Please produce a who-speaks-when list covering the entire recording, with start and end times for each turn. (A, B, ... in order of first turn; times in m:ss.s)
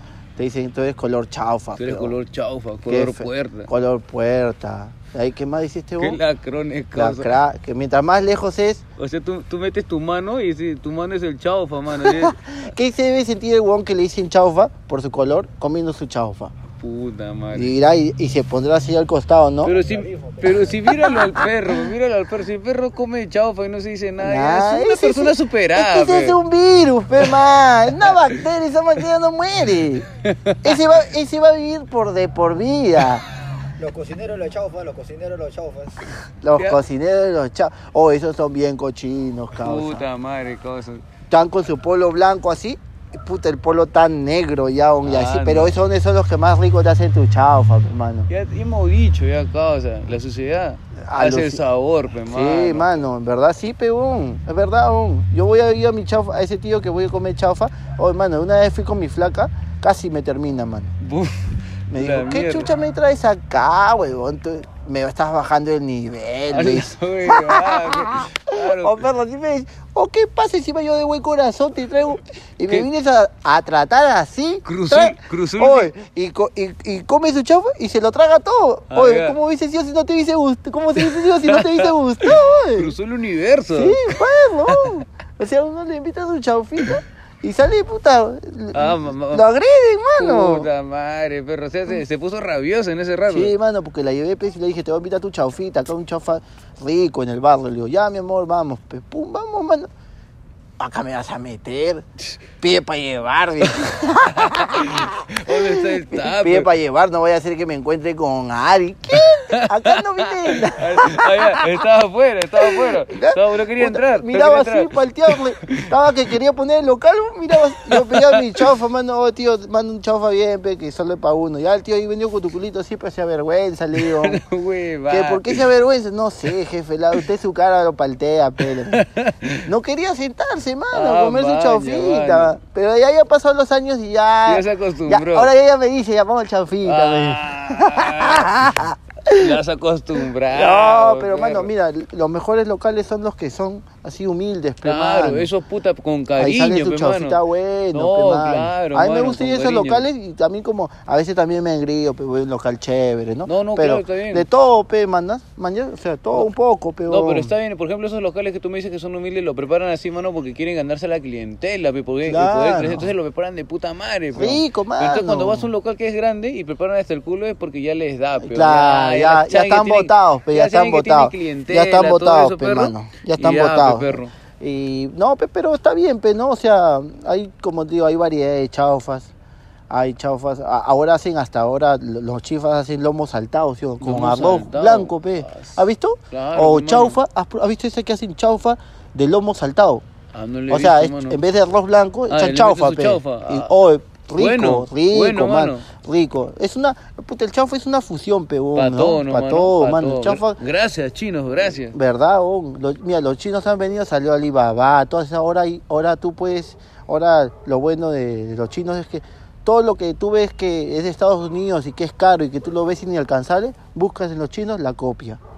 0:00.4-0:02.1 A
0:01.8-0:03.7 B
0:02.9-0:06.2 A
0:06.0-0:07.3 B
0:06.9-0:08.8 A
0:09.0-0:12.4 B
0:11.9-0:16.5 A
0:16.7-0:17.7 B
0:17.5-0:19.7 A
0:19.6-0:26.4 B
0:19.7-0:21.3 C
0:24.2-0:30.0 A
0:30.2-0:30.7 B
0:30.6-0:33.2 A
0:33.8-0:36.0 C
0:36.4-0:40.0 A
0:36.5-0:36.8 B
0:39.6-0:41.0 B
0:41.3-0:48.3 A
0:45.0-0:45.8 B
0:48.3-0:53.0 B
0:51.0-0:51.6 A
0:52.2-1:00.9 A
1:01.0-1:02.7 B
1:01.9-1:22.9 A
1:06.5-1:09.1 B
1:14.6-1:15.9 B
1:18.9-1:19.4 B
1:21.0-1:24.2 B
1:23.7-1:30.7 A
1:24.7-1:25.0 B
1:28.7-1:29.4 B
1:30.2-1:33.5 B
1:33.3-1:39.9 A
1:40.8-1:42.0 A
1:42.6-1:51.8 A
1:43.6-1:46.7 B
1:49.1-1:55.9 B
1:52.6-2:04.4 A
1:57.7-1:58.7 B
2:04.0-2:05.7 B
2:05.1-2:09.0 A
2:08.9-2:09.7 B
2:09.6-2:19.6 A
2:10.9-2:12.6 B
2:14.4-2:15.5 B
2:16.8-2:21.7 B
2:20.5-2:25.5 A
2:24.8-2:27.4 B
2:26.4-2:37.5 A
2:27.9-2:30.0 B
2:33.4-2:34.4 B
2:37.1-2:54.3 B
2:42.2-2:43.1 A
2:44.3-2:45.7 A
2:48.4-2:59.3 A
2:59.9-3:10.0 A
3:04.0-3:07.2 B
3:10.3-3:11.4 B
3:10.7-3:20.6 A
3:12.3-3:13.7 B
3:14.4-3:15.8 B
3:18.7-3:22.0 B
3:21.8-3:35.4 A